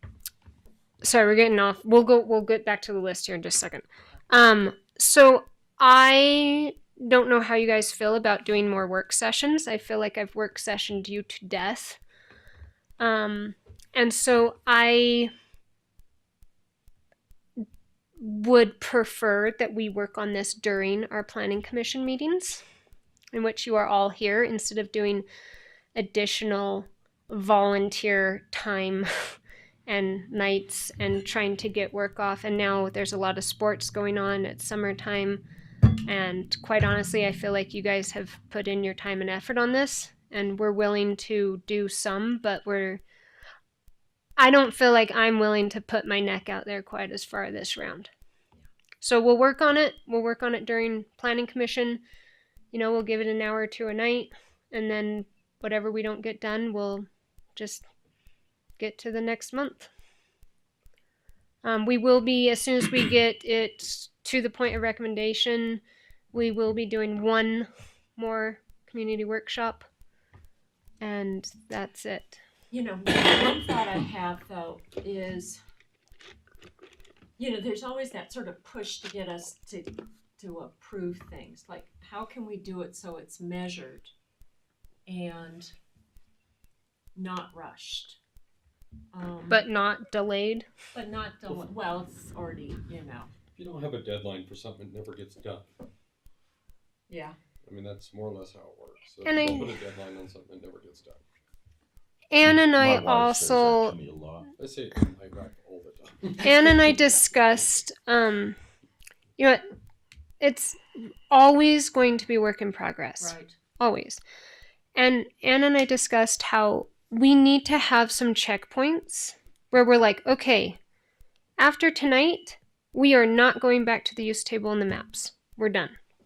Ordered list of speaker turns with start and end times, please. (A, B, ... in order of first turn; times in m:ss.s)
0:01.0-0:12.0 A
0:13.0-0:15.3 A
0:18.2-0:22.6 A
0:23.3-0:25.3 A
0:26.0-0:29.1 A
0:29.9-0:35.4 A
0:36.1-0:43.0 A
0:44.4-0:48.1 A
0:49.0-0:52.0 A
0:52.7-0:57.9 A
0:58.8-0:59.9 A
1:01.6-1:05.8 A
1:06.3-1:09.8 A
1:11.0-1:12.4 A
1:12.7-1:15.6 B
1:17.4-1:24.1 B
1:25.1-1:25.7 B
1:27.2-1:28.2 B
1:29.1-1:29.7 B
1:29.5-1:30.7 A
1:30.9-1:33.3 B
1:33.6-1:35.7 C
1:37.1-1:37.4 B
1:37.6-1:41.2 C
1:39.2-1:39.8 A
1:42.3-1:44.0 A
1:42.4-1:44.5 D
1:44.5-1:46.9 C
1:46.4-1:48.6 A
1:49.4-1:49.6 A
1:50.4-1:50.8 A
1:51.3-1:54.2 A
1:53.2-1:53.6 B
1:55.0-2:00.8 A
2:01.6-2:06.0 A